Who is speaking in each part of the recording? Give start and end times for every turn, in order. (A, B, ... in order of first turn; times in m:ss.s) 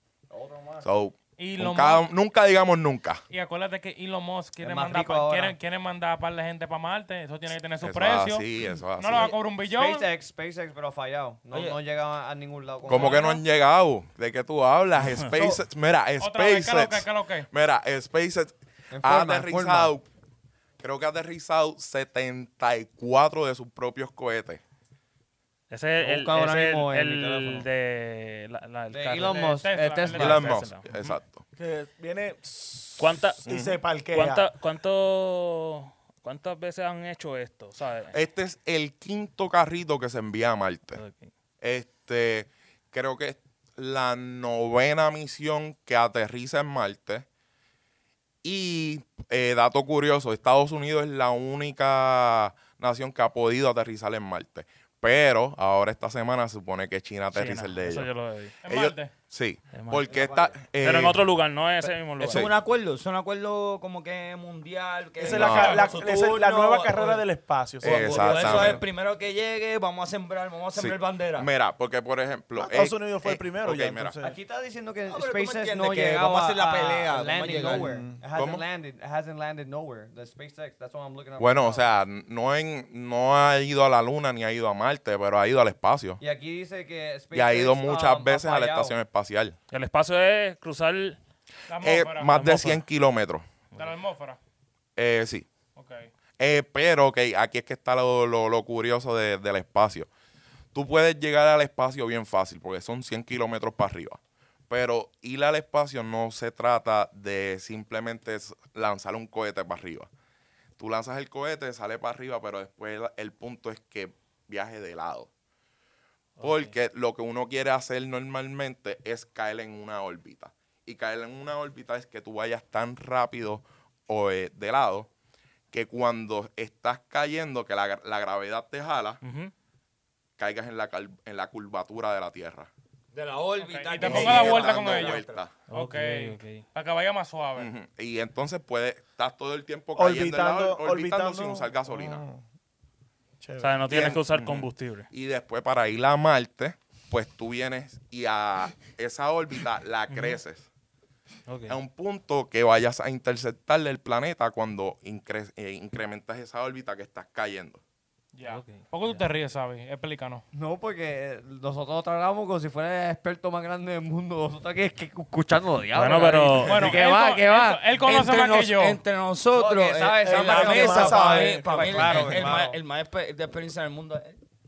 0:00.3-0:00.9 A
0:00.8-0:03.2 B
0:01.4-0:02.1 C
0:03.3-0:08.4 C
0:04.6-0:05.6 A
0:07.8-0:09.4 B
0:09.0-0:10.1 C
0:09.7-0:13.3 A
0:11.5-0:11.8 D
0:12.9-0:13.4 C
0:12.9-0:20.1 B
0:15.3-0:15.6 A
0:16.2-0:17.5 C
0:18.9-0:19.9 A
0:20.8-0:24.6 B
0:25.7-0:30.9 E
0:26.0-0:27.7 A
0:28.9-0:30.6 A
0:29.2-0:30.4 C
0:30.1-0:31.4 B
0:31.6-0:34.5 F
0:33.0-0:33.4 E
0:33.5-0:33.8 B
0:34.1-0:38.1 E
0:38.1-0:41.0 B
0:41.0-0:41.3 E
0:41.6-0:47.3 B
0:48.4-0:58.1 B
0:57.3-0:58.5 E
0:58.6-0:59.1 C
0:58.7-1:01.2 B
0:59.7-1:00.0 E
1:00.1-1:00.6 D
1:00.8-1:02.5 E
1:02.2-1:07.2 D
1:05.2-1:08.8 F
1:05.3-1:05.8 B
1:07.8-1:08.8 B
1:07.8-1:11.5 D
1:10.7-1:14.1 B
1:12.6-1:14.4 F
1:14.2-1:21.8 A
1:15.1-1:17.9 D
1:17.5-1:18.2 F
1:18.4-1:18.6 B
1:21.4-1:26.2 B
1:26.2-1:29.0 A
1:27.3-1:29.6 B
1:29.7-1:31.2 E
1:31.7-1:32.4 C
1:31.8-1:33.5 B
1:32.3-1:32.8 E
1:33.8-1:34.4 C
1:35.0-1:35.5 B
1:35.8-1:36.1 C
1:36.4-1:40.1 B
1:40.7-1:44.2 B
1:44.7-1:50.1 B
1:50.8-1:55.3 B
1:56.4-2:05.1 B
1:56.4-1:56.7 E
2:05.7-2:09.2 B
2:09.2-2:09.5 E
2:10.4-2:12.7 B
2:13.1-2:15.4 D
2:13.6-2:17.7 C
2:14.0-2:15.5 B
2:15.7-2:16.6 E
2:17.6-2:22.2 B
2:20.0-2:22.4 F
2:23.4-2:24.2 F
2:23.6-2:25.1 E
2:23.9-2:30.7 B
2:30.1-2:30.4 E
2:31.5-2:31.8 E
2:31.7-2:37.8 B
2:38.4-2:40.4 C
2:38.4-2:39.2 E
2:40.5-2:47.4 A
2:45.9-2:47.0 E
2:46.6-2:49.0 C
2:46.6-2:54.4 D
2:49.5-2:52.7 A
2:50.2-2:52.3 F
2:51.9-2:52.7 C